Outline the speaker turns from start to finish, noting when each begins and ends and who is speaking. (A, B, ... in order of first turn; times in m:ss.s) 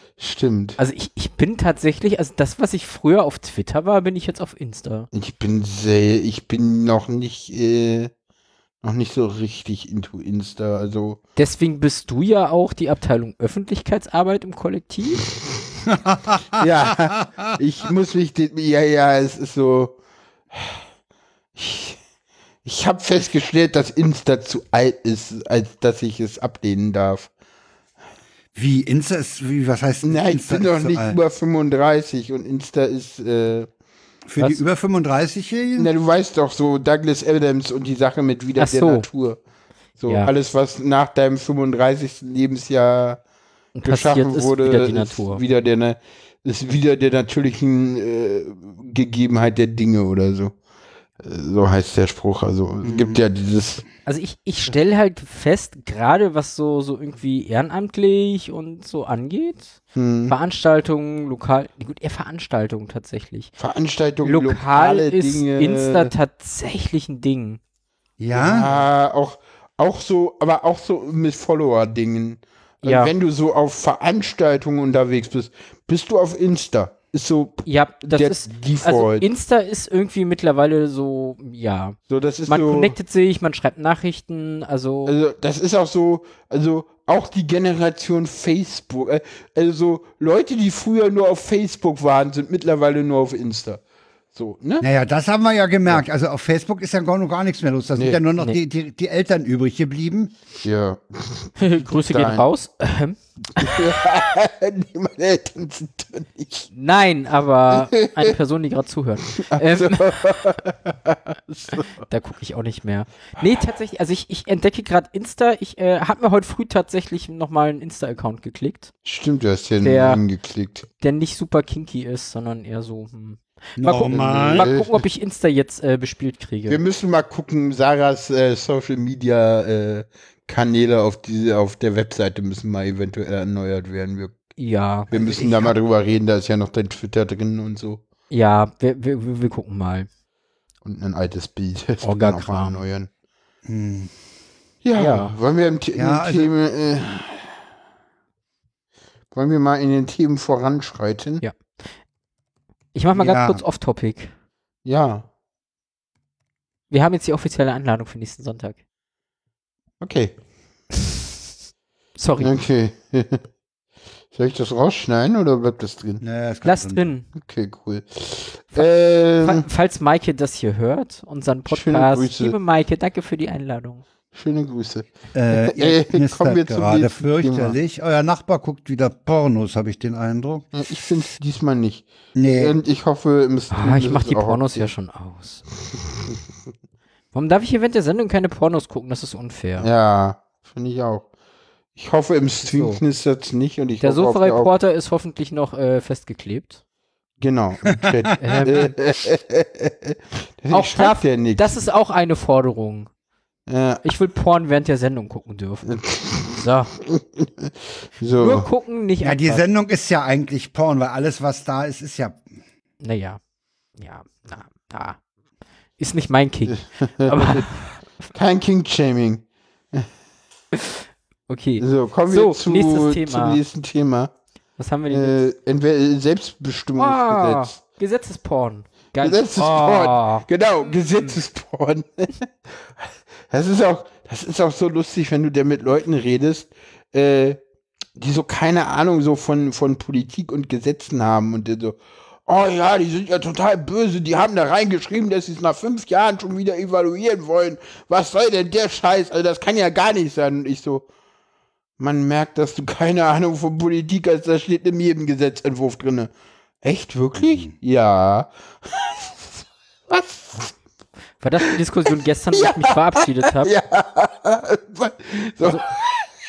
0:00.2-0:00.8 A
0:00.8-0:05.1 B
0:05.1-0:08.1 A
0:08.8-0:11.2 A
0:11.4-0:15.2 B
0:15.9-0:16.7 C
0:16.5-0:20.0 A
0:20.5-0:20.8 A
0:21.6-0:22.0 A
0:22.6-0:27.3 A
0:28.5-0:31.2 C
0:30.0-0:33.7 A
0:34.3-0:35.9 C
0:35.8-0:39.4 A
0:38.6-0:39.0 B
0:40.0-0:43.2 A
0:43.8-0:45.4 B
0:43.8-0:50.5 A
0:51.2-0:53.8 A
0:52.8-0:53.2 C
0:54.0-1:03.5 B
0:59.9-1:00.3 A
1:03.6-1:06.1 A
1:04.2-1:07.6 B
1:08.2-1:08.7 C
1:08.3-1:19.2 A
1:12.8-1:13.1 B
1:17.6-1:25.1 B
1:22.1-1:22.9 A
1:25.0-1:33.8 A
1:34.3-1:34.9 A
1:34.8-1:40.3 C
1:40.6-1:42.4 A
1:41.6-1:43.8 B
1:43.6-1:46.7 A
1:46.7-1:50.6 B
1:47.7-1:48.3 A
1:49.3-1:51.9 A
1:51.7-1:58.9 B
1:59.0-2:00.9 A
1:59.8-2:00.2 B
2:01.0-2:06.8 B
2:03.8-2:04.7 C
2:04.1-2:04.9 A
2:06.7-2:14.3 A
2:14.6-2:15.1 B
2:15.1-2:18.0 A
2:15.1-2:15.7 C
2:18.3-2:20.1 B
2:20.8-2:23.1 A
2:22.0-2:22.8 B
2:23.6-2:24.1 C
2:24.8-2:27.5 A
2:25.0-2:25.3 B
2:26.0-2:26.5 C
2:29.3-2:31.4 A
2:32.9-2:34.3 B
2:33.1-2:33.6 C
2:34.8-2:35.2 A
2:36.9-2:38.8 B
2:40.0-2:40.4 A
2:42.2-2:42.6 B
2:42.4-2:43.4 A
2:44.3-2:46.2 A
2:46.2-2:47.1 C
2:46.6-2:47.3 B
2:47.3-2:49.6 A
2:49.4-2:54.0 B
2:51.7-2:52.6 A
2:54.3-2:57.8 A
2:55.3-3:00.6 C
3:00.7-3:04.9 A
3:02.4-3:02.7 C
3:03.7-3:05.6 B
3:07.3-3:09.9 B
3:09.8-3:11.2 A
3:12.0-3:14.7 A
3:12.7-3:13.0 B
3:14.0-3:16.8 B
3:17.4-3:21.7 A
3:18.4-3:18.9 B
3:20.7-3:23.1 B
3:23.7-3:24.0 A
3:24.0-3:25.9 B
3:25.8-3:28.7 A
3:26.5-3:26.9 B
3:28.4-3:29.6 B
3:29.2-3:32.4 C
3:33.0-3:33.4 B
3:34.0-3:35.2 B
3:36.0-3:38.0 B
3:36.7-3:37.7 A
3:38.3-3:40.1 A
3:40.7-3:43.6 B
3:41.8-3:44.3 A
3:44.8-3:45.4 B
3:45.1-3:47.8 A
3:47.0-3:51.4 B
3:49.2-3:52.5 A
3:53.5-3:57.6 A
3:58.2-4:11.0 A
4:12.0-4:16.3 A
4:16.8-4:20.7 A
4:21.4-4:23.7 B
4:22.5-4:26.3 A